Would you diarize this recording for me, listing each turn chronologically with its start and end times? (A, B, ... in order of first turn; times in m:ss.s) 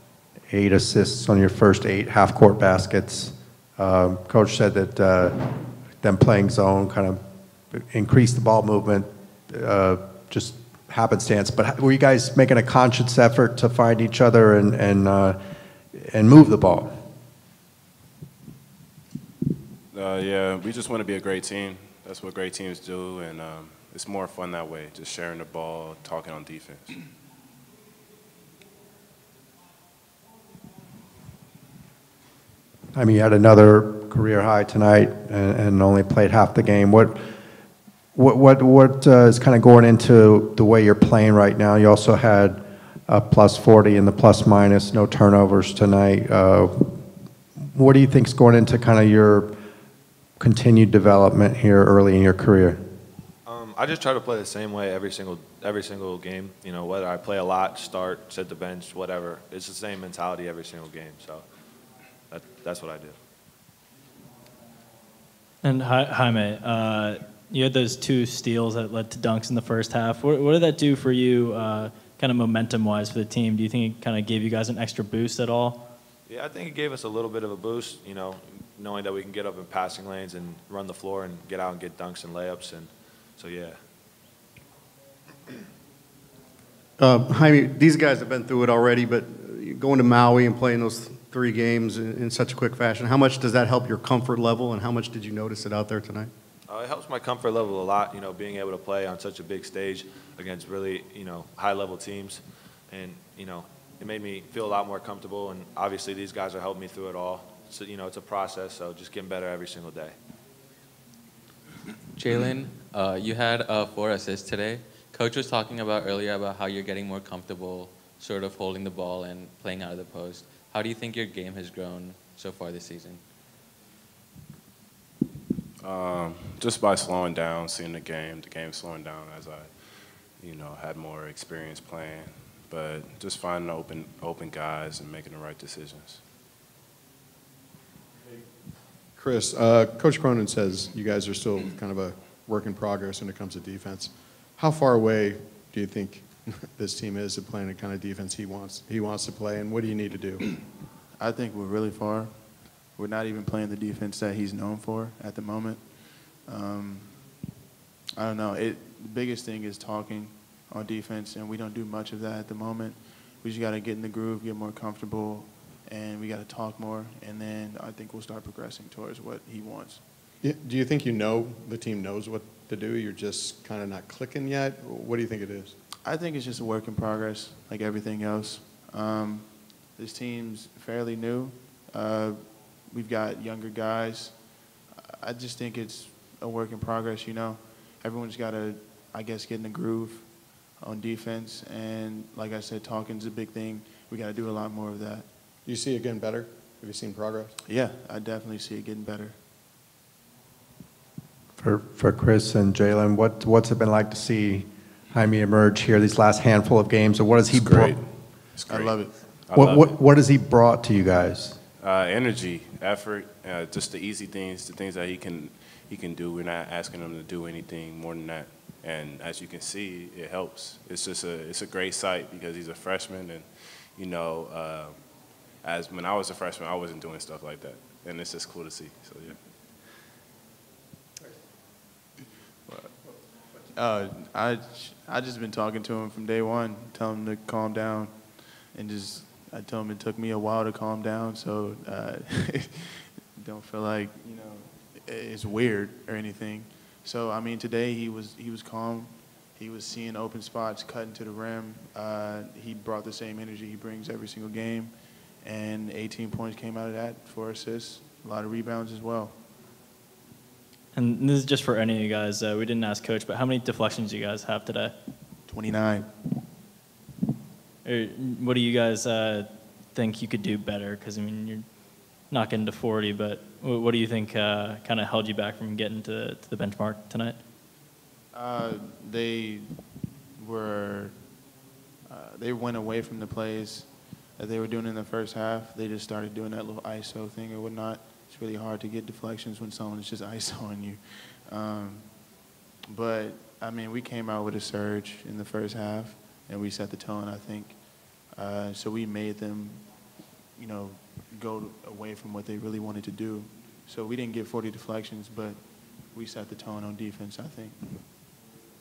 0:00.5-0:05.4 A
0:06.0-0:07.2 A
0:07.7-0:15.4 A
0:15.9-0:17.0 A
0:19.9-0:27.0 B
0:32.9-0:37.2 A
0:38.2-0:47.0 A
0:47.6-0:49.6 A
0:50.4-0:52.8 A
0:53.5-1:01.4 C
1:02.3-1:03.1 C
1:05.6-1:15.8 D
1:16.3-1:23.8 C
1:27.0-1:36.3 E
1:36.7-1:42.4 C
1:42.9-1:50.1 C
1:52.1-2:03.2 F
2:05.8-2:16.2 B
2:19.1-2:30.4 G
2:31.1-2:37.5 H
2:38.1-2:50.0 H
2:50.4-2:55.8 G
2:56.0-3:15.3 H
3:15.6-3:17.5 G
3:17.6-3:19.4 H
3:21.6-3:28.0 A
3:27.5-3:30.0 B
3:28.7-3:29.3 H
3:29.5-3:31.6 A
3:31.8-3:49.6 B
3:52.7-4:19.4 H
4:20.9-4:24.9 D
4:25.4-4:26.1 H
4:27.8-4:37.4 D
4:38.3-5:07.8 H